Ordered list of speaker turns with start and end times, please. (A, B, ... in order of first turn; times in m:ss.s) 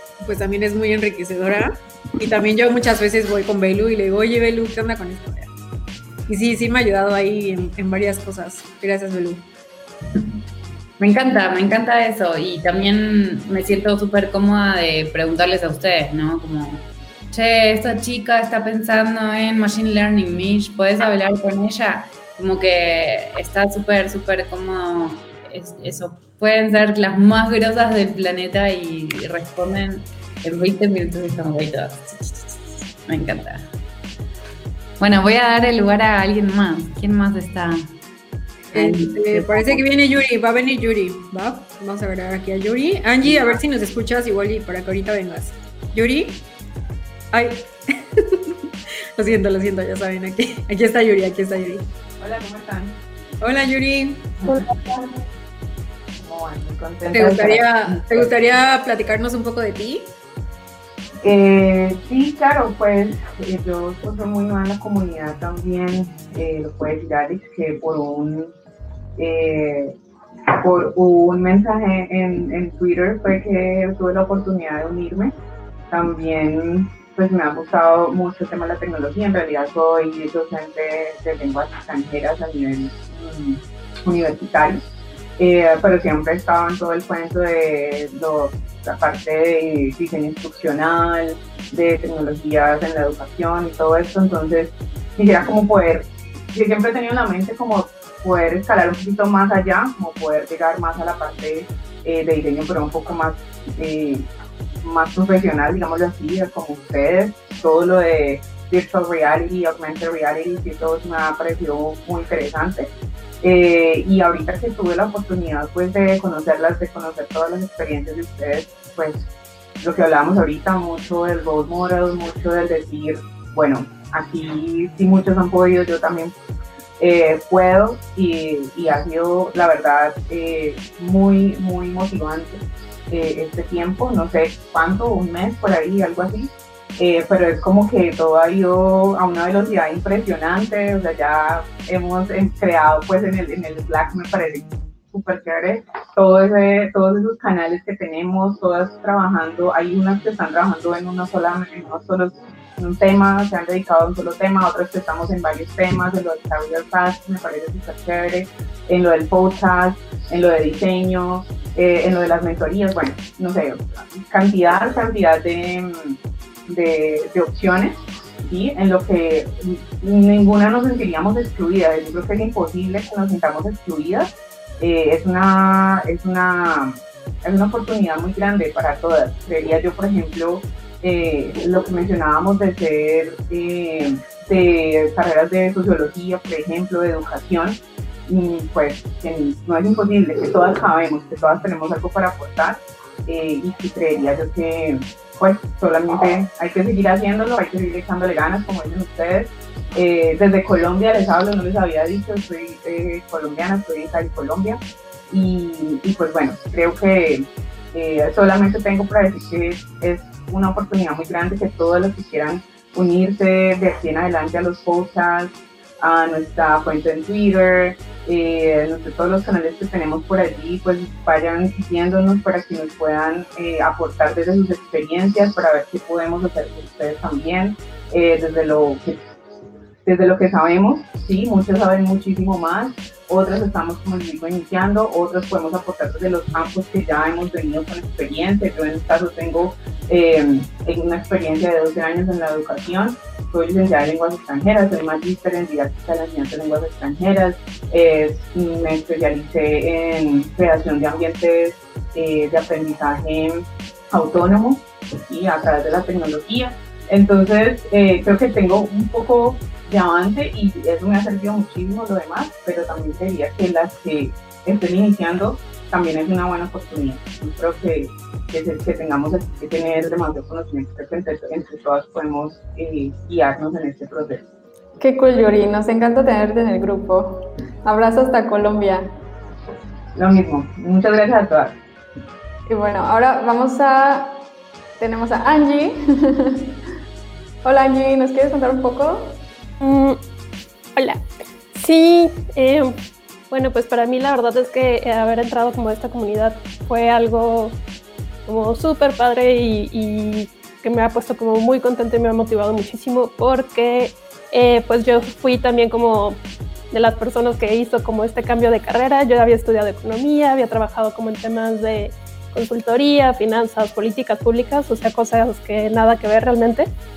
0:00.2-0:05.5 A
0:06.3-0:09.4 A
0:11.0-0:33.7 B
0:35.0-0:37.9 B
0:38.7-0:46.4 A
0:38.7-0:39.8 B
0:43.3-0:43.6 C
0:47.3-0:48.6 A
0:49.2-0:51.9 A
0:52.2-0:53.0 C
0:53.4-0:54.6 A
0:54.4-0:55.0 C
0:56.2-0:58.3 C
0:57.1-1:00.1 A
1:01.2-1:08.5 C
1:09.2-1:10.0 C
1:10.5-1:15.3 C
1:15.9-1:24.8 C
1:25.4-1:44.3 C
1:44.8-1:59.2 C
1:59.8-2:06.3 C
2:07.0-3:49.2 C
3:50.0-4:34.4 C
4:35.0-4:39.1 D
4:40.2-4:41.8 C
4:42.7-4:44.4 D
4:45.0-4:46.7 D
4:47.6-4:49.4 D
4:49.8-4:50.2 E
4:51.0-4:53.0 E
4:53.5-4:57.8 E
4:58.4-5:06.4 E
5:06.9-5:16.9 E